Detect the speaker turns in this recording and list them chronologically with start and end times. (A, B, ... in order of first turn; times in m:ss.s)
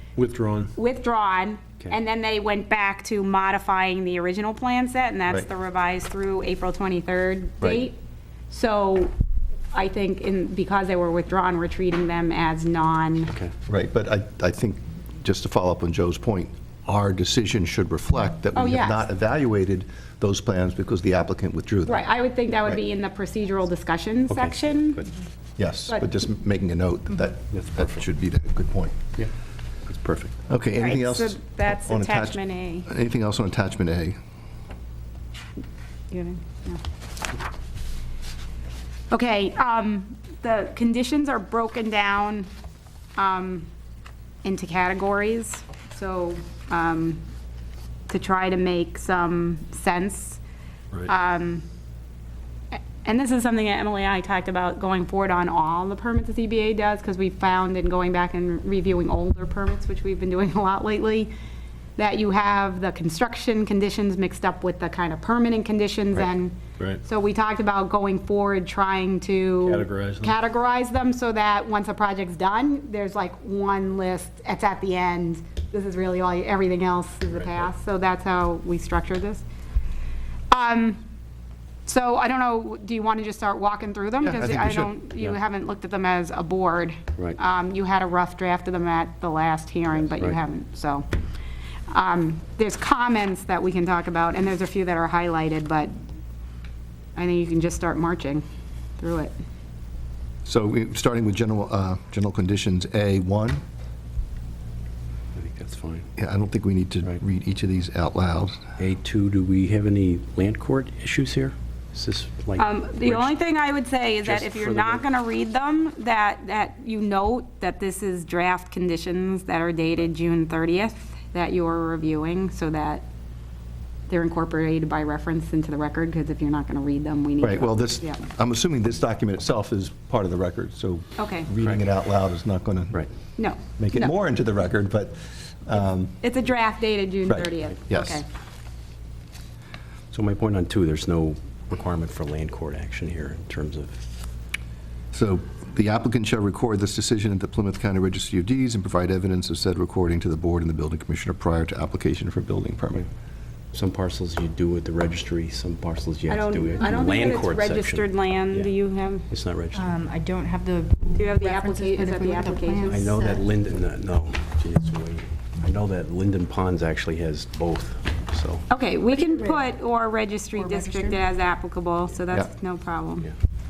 0:00.2-0:00.7 A
0:00.8-0:08.0 B
0:08.5-0:09.1 B
0:09.7-0:13.4 B
0:13.7-0:22.1 C
0:18.5-0:19.1 B
0:21.9-0:25.1 B
0:24.3-0:25.1 A
0:25.6-0:29.0 C
0:27.5-0:27.8 A
0:29.9-0:30.3 A
0:30.5-0:34.2 C
0:30.8-0:32.9 B
0:36.1-0:36.8 B
0:39.1-0:42.5 B
0:43.2-0:43.7 B
0:44.4-0:47.2 B
0:48.1-0:50.4 B
0:51.0-0:51.7 B
0:52.7-1:01.3 B
1:02.0-1:19.4 B
1:09.6-1:10.3 A
1:20.5-1:21.0 B
1:21.9-1:31.1 B
1:24.2-1:24.9 C
1:31.9-1:35.9 B
1:37.2-1:38.4 B
1:39.0-1:39.3 B
1:40.4-1:43.6 C
1:45.3-1:46.1 A
1:46.2-1:48.6 C
1:48.8-1:53.3 A
1:52.6-2:03.0 B
1:54.2-1:55.1 A
2:04.1-2:08.2 B
2:07.4-2:13.0 C
2:11.2-2:11.5 B
2:13.4-2:14.1 B
2:13.8-2:16.2 C
2:16.2-2:18.3 B
2:17.3-2:18.2 C
2:20.1-2:24.0 A
2:25.1-2:33.0 C
2:33.7-2:38.7 A
2:36.3-2:39.3 B
2:39.3-2:40.0 A
2:39.7-2:43.4 D
2:41.1-2:43.1 B
2:42.9-2:48.7 A
2:48.7-2:53.3 B
2:49.1-2:49.6 D
2:50.6-2:51.2 D